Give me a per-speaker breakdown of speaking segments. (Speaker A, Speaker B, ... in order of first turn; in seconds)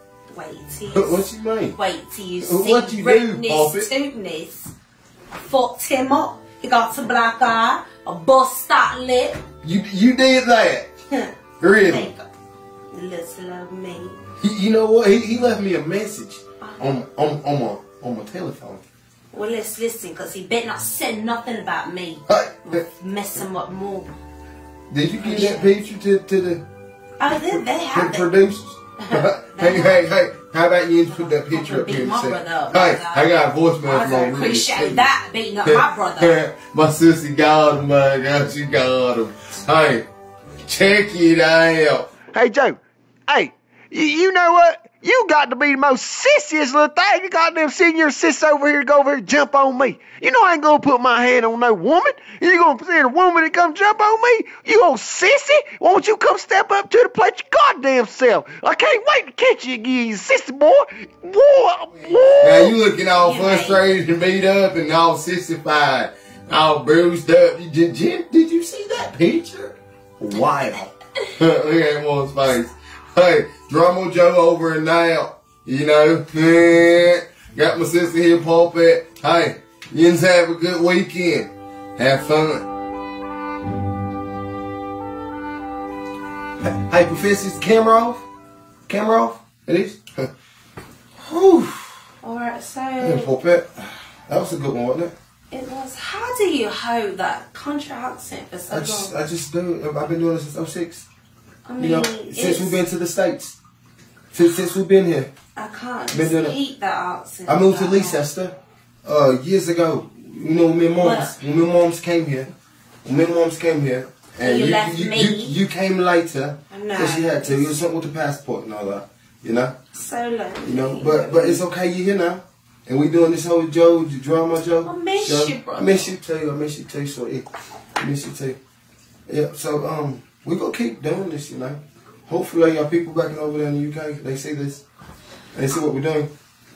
Speaker A: 0.3-4.7, 5.3-9.4, 11.8-12.3, 12.9-14.2, 16.6-16.9, 19.3-24.2, 25.2-25.8, 27.2-28.3, 29.0-30.1, 31.1-36.4, 63.1-63.9, 70.4-70.8, 92.2-93.3, 95.5-99.1, 101.7-102.8, 105.5-108.2, 111.0-111.3, 114.4-115.5, 116.7-117.8, 119.9-121.6, 124.8-126.1
Speaker B: 0.9-1.8, 2.4-3.9, 9.6-10.9, 11.6-12.1, 14.4-18.8, 22.3-22.8, 24.9-26.6, 27.5-35.1, 35.6-40.1, 40.6-42.2, 62.4-70.8, 71.4-82.6, 86.6-88.2, 88.9-90.3, 91.2-91.9, 93.0-95.1, 98.7-101.1, 101.8-103.6, 104.3-105.3, 106.1-106.6, 107.5-108.5, 109.0-112.5, 113.0-119.7, 120.6-127.5, 128.0-128.6, 129.3-134.8, 135.5-136.3
Speaker C: 42.3-62.7